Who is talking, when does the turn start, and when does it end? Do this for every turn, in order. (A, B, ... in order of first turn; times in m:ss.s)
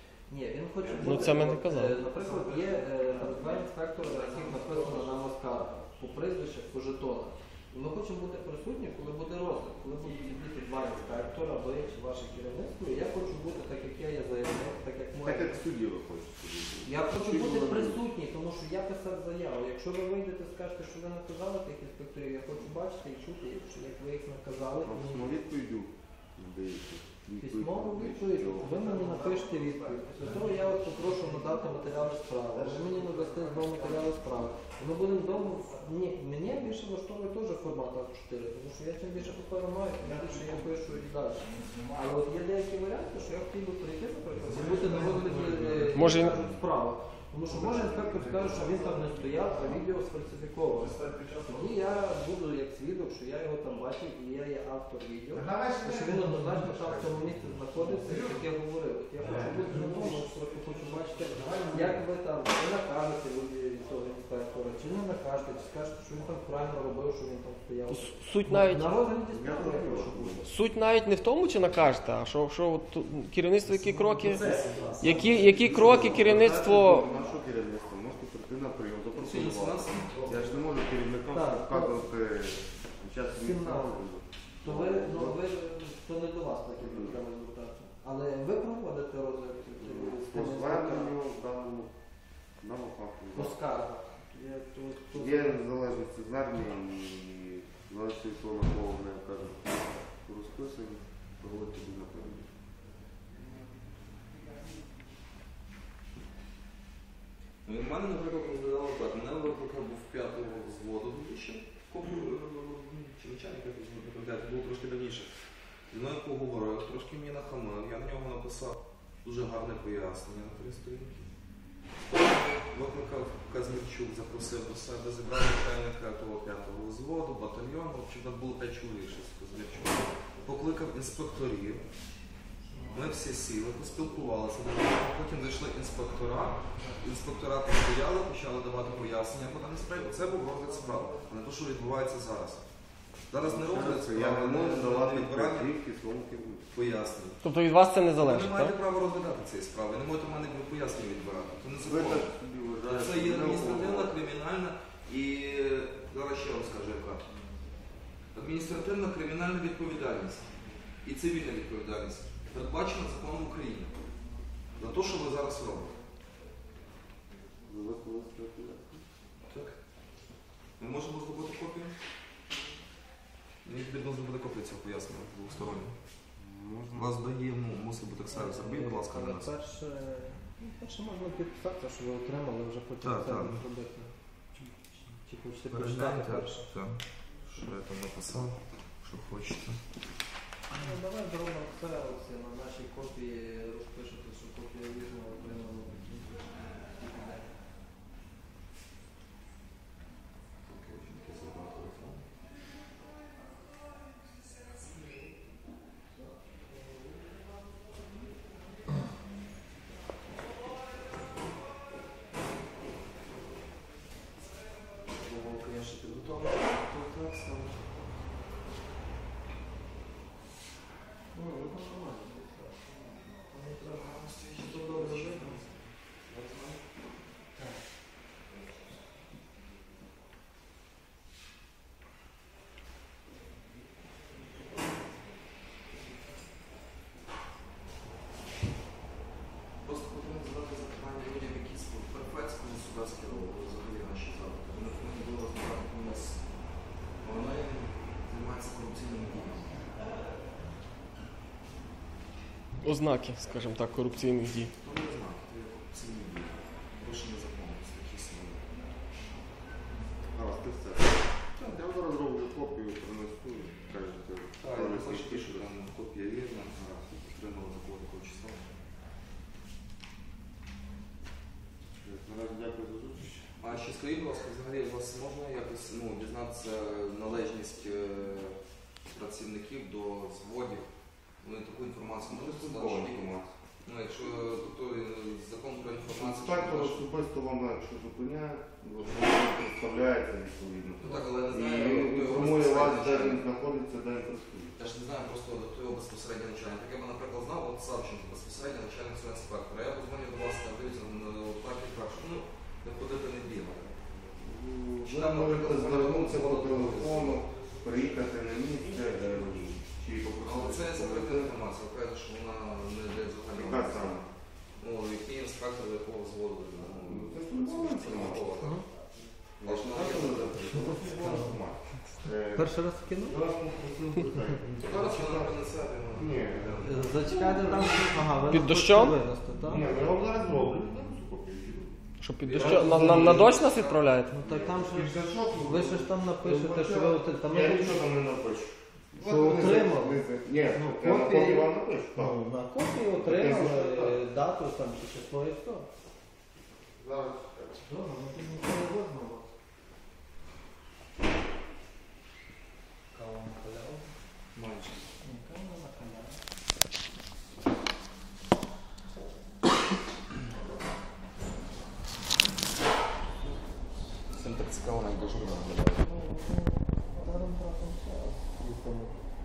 0:00.3-0:15.6 A
0:00.8-0:05.2 B
0:01.0-0:02.0 C
0:15.2-0:18.0 D
0:16.8-0:25.4 A
0:24.8-0:29.0 D
0:27.4-1:10.5 A
0:28.8-0:33.9 B
0:40.0-0:40.9 B
0:41.6-0:41.9 B
0:44.4-0:46.0 B
0:45.9-0:46.4 C
0:47.6-0:49.2 B
0:51.0-0:51.7 B
0:55.4-0:58.4 B
0:59.2-1:00.4 B
1:00.9-1:02.0 B
1:07.9-1:08.9 C
1:09.2-1:10.5 D
1:10.4-1:17.1 C
1:13.6-1:16.2 B
1:14.3-1:16.5 E
1:15.4-1:25.4 D
1:19.1-1:20.2 E
1:20.1-1:20.5 B
1:21.3-1:22.0 A
1:23.4-1:24.0 A
1:24.6-1:31.1 A
1:26.8-1:27.2 D
1:29.8-1:31.9 D
1:32.6-1:33.6 D
1:33.4-1:35.6 A
1:35.1-1:42.5 D
1:47.6-1:55.3 E
1:55.9-2:01.3 E
2:02.1-2:11.8 E
2:12.9-2:22.6 E
2:23.3-2:25.7 E
2:23.4-2:26.7 D
2:26.7-2:27.4 E
2:27.4-2:28.8 C
2:28.2-2:32.3 E
2:31.8-2:34.1 D
2:32.8-2:37.3 E
2:38.3-2:40.5 E
2:41.0-2:43.9 E
2:44.8-2:46.0 E
2:47.7-2:49.1 D
2:49.5-2:49.8 E
2:50.8-2:51.9 E
2:53.6-2:56.0 E
2:56.4-2:57.2 D
2:56.9-2:59.5 E
2:58.3-3:06.6 A
3:03.0-3:03.6 E
3:05.7-3:09.8 E
3:10.7-3:17.5 A
3:20.6-3:22.3 E
3:35.1-3:38.0 E
3:41.3-3:45.7 A
3:43.6-3:46.8 E
3:47.6-3:47.8 A
3:59.8-4:06.4 E
4:07.2-4:09.8 E
4:12.8-4:14.7 C
4:14.8-4:18.6 E
4:20.3-4:25.7 D
4:24.6-4:28.6 E
4:32.0-4:33.5 D
4:33.6-4:38.6 E
4:39.1-4:40.9 E
4:41.4-4:47.0 E
4:42.3-4:43.5 D
4:46.1-4:54.8 D
4:51.0-4:53.4 E
4:54.8-5:04.1 E
5:04.4-5:11.6 D
5:05.0-5:07.4 E
5:10.4-5:14.2 E
5:13.5-5:14.3 D
5:14.8-5:18.8 E
5:17.0-5:18.5 D
5:19.6-5:22.8 D
5:19.6-5:21.1 E
5:20.7-5:21.4 A
5:22.5-5:23.4 A
5:23.3-5:25.6 D
5:24.8-5:27.3 E
5:26.2-5:27.9 D
5:26.8-5:29.9 A
5:28.5-5:29.2 C
5:29.6-5:32.0 D
5:32.2-5:34.3 C
5:32.4-5:34.0 E
5:32.5-5:33.6 D
5:34.3-5:38.0 A
5:34.3-5:42.4 D
5:39.2-5:45.9 A
5:43.2-5:44.2 D
5:47.0-5:47.8 D
5:47.8-5:49.5 A
5:53.1-5:54.1 B
5:54.5-5:55.0 E
5:55.2-5:56.4 A
6:04.3-6:06.1 E
6:06.1-6:09.1 A